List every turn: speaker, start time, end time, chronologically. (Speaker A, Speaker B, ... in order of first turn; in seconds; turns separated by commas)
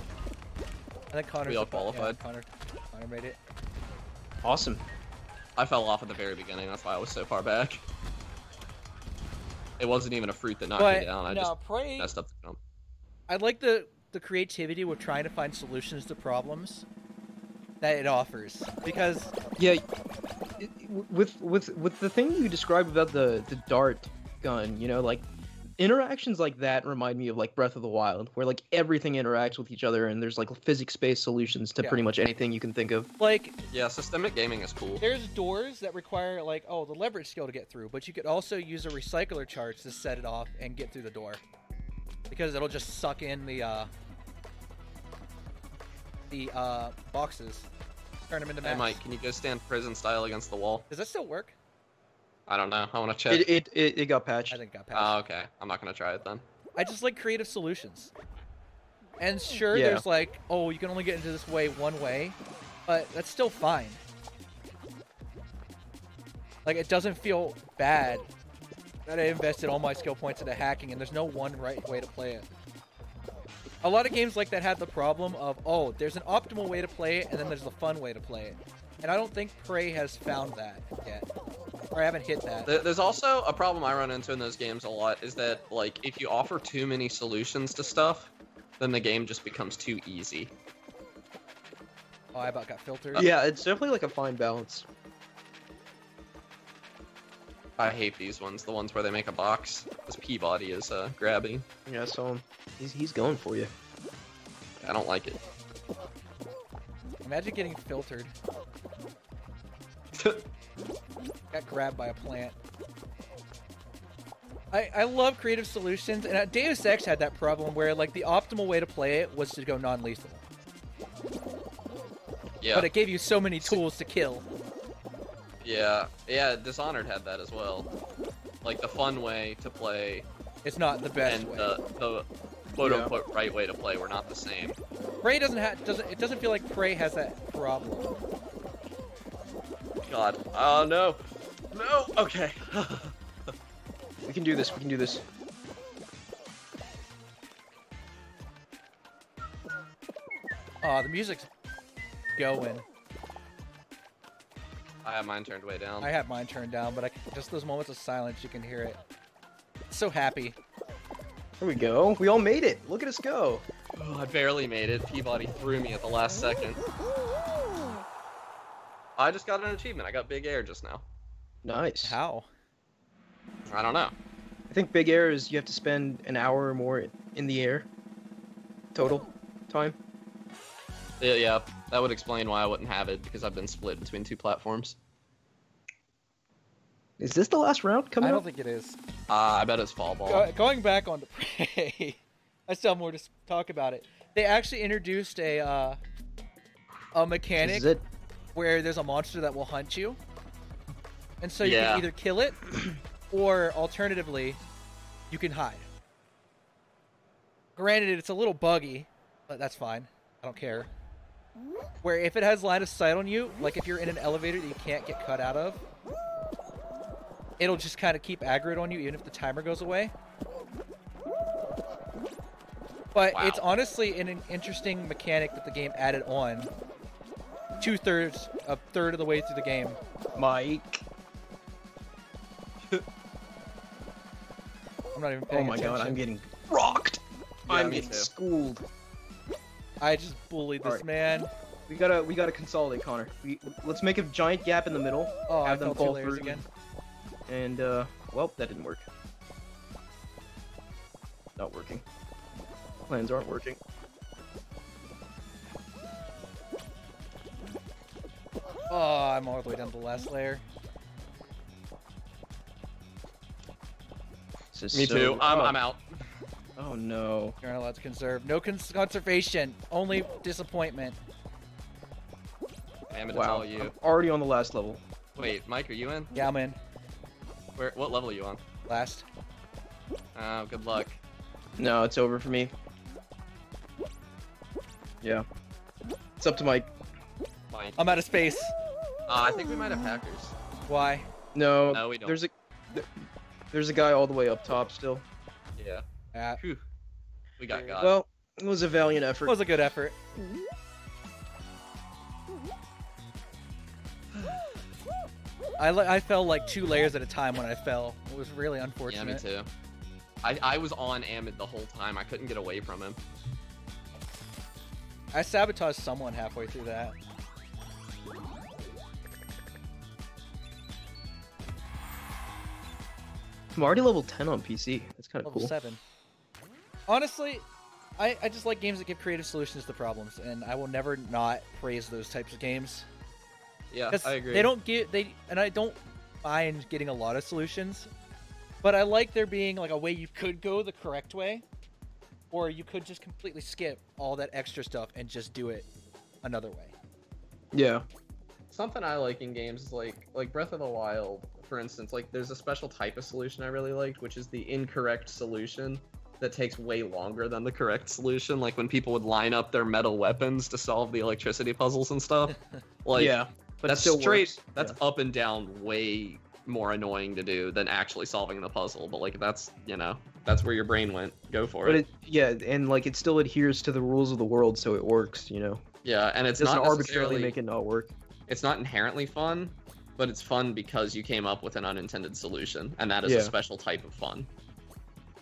Speaker A: 1.1-3.4, Speaker B: 1.4-2.2, Speaker C: 4.4-4.8, Speaker B: 5.6-7.8, Speaker B: 9.8-12.6, Speaker A: 10.8-12.1, Speaker A: 13.3-16.9, Speaker A: 17.8-19.3, Speaker C: 19.6-19.8, Speaker C: 20.6-25.3, Speaker C: 25.8-33.1, Speaker A: 31.8-32.1, Speaker A: 33.2-33.6, Speaker B: 33.7-35.0, Speaker A: 35.0-41.4, Speaker A: 42.3-43.9, Speaker A: 46.3-47.7, Speaker A: 48.3-49.0, Speaker B: 48.6-50.9, Speaker A: 50.9-51.5, Speaker B: 52.5-53.5, Speaker C: 53.3-54.6, Speaker A: 54.5-55.2, Speaker B: 54.9-56.4, Speaker A: 56.8-58.1, Speaker A: 59.2-64.0, Speaker C: 59.7-60.0, Speaker A: 66.7-68.3, Speaker A: 69.1-72.5, Speaker A: 73.8-81.3, Speaker A: 81.9-82.7, Speaker B: 82.7-90.5, Speaker A: 92.3-93.3, Speaker C: 93.2-94.9, Speaker B: 97.8-101.7, Speaker C: 101.9-103.7, Speaker B: 104.8-105.4, Speaker A: 107.2-108.3, Speaker B: 110.1-110.5, Speaker A: 111.5-112.6, Speaker A: 114.7-120.4, Speaker B: 122.6-122.9, Speaker A: 122.7-124.5, Speaker B: 125.6-127.9, Speaker B: 128.6-130.3, Speaker A: 130.6-131.7, Speaker B: 131.3-134.8, Speaker C: 132.8-133.1, Speaker A: 135.2-138.2, Speaker B: 140.1-141.2, Speaker B: 141.7-143.1, Speaker C: 144.2-145.2, Speaker A: 150.8-151.5, Speaker A: 152.4-152.8, Speaker B: 155.0-156.1, Speaker A: 156.0-159.0, Speaker A: 159.9-160.6, Speaker C: 161.6-163.7, Speaker B: 164.0-166.8, Speaker B: 169.2-171.0, Speaker C: 171.6-172.2, Speaker A: 172.0-172.5, Speaker B: 173.7-174.1, Speaker C: 174.7-177.9, Speaker C: 178.9-180.0, Speaker B: 181.2-185.0, Speaker C: 187.2-188.4, Speaker A: 188.2-189.0, Speaker B: 189.3-190.5, Speaker A: 190.3-196.0, Speaker A: 197.1-197.9, Speaker C: 197.6-198.0, Speaker A: 198.6-200.2, Speaker A: 201.4-202.7, Speaker B: 201.6-202.1, Speaker A: 203.3-204.6, Speaker A: 205.3-205.9, Speaker A: 207.8-210.9, Speaker A: 212.0-215.8, Speaker A: 217.6-220.1, Speaker A: 223.1-226.7, Speaker B: 223.3-223.7, Speaker A: 227.8-230.0, Speaker C: 230.4-231.0, Speaker A: 235.1-236.2, Speaker C: 235.5-238.9, Speaker B: 237.7-238.3, Speaker A: 240.0-241.5, Speaker C: 241.9-246.7, Speaker A: 245.5-246.6, Speaker C: 247.5-249.1, Speaker C: 251.6-252.1, Speaker C: 253.1-253.8, Speaker A: 258.9-260.6, Speaker C: 264.7-265.8, Speaker B: 264.9-266.0, Speaker C: 266.8-267.6, Speaker A: 267.6-271.2, Speaker B: 273.1-273.9, Speaker C: 273.3-275.0, Speaker B: 275.4-276.3, Speaker A: 276.4-276.8, Speaker B: 277.8-278.6, Speaker A: 278.9-279.2, Speaker B: 280.4-281.2, Speaker C: 281.8-282.7, Speaker C: 286.4-286.9, Speaker B: 287.7-288.1, Speaker A: 288.0-288.7, Speaker B: 289.3-290.6, Speaker A: 290.9-291.3, Speaker C: 291.5-295.2, Speaker B: 291.9-292.4, Speaker B: 295.8-296.0, Speaker A: 296.3-296.6, Speaker B: 296.6-296.8, Speaker B: 297.6-298.1, Speaker C: 297.7-299.6, Speaker A: 299.5-300.2, Speaker B: 304.3-304.6, Speaker A: 305.8-309.4, Speaker B: 309.1-309.7, Speaker B: 310.4-313.2, Speaker A: 315.3-317.2, Speaker C: 323.7-325.7, Speaker A: 325.4-326.0, Speaker A: 327.1-327.6, Speaker A: 328.2-333.1, Speaker B: 333.9-334.7, Speaker A: 334.1-338.1, Speaker A: 338.8-341.6, Speaker A: 342.5-345.9, Speaker A: 346.4-346.9, Speaker C: 347.7-348.1, Speaker B: 348.7-363.4, Speaker C: 363.1-365.0, Speaker B: 363.9-372.0, Speaker C: 371.8-375.8, Speaker B: 376.0-377.6, Speaker C: 376.6-378.1, Speaker B: 378.5-384.5, Speaker C: 383.2-383.5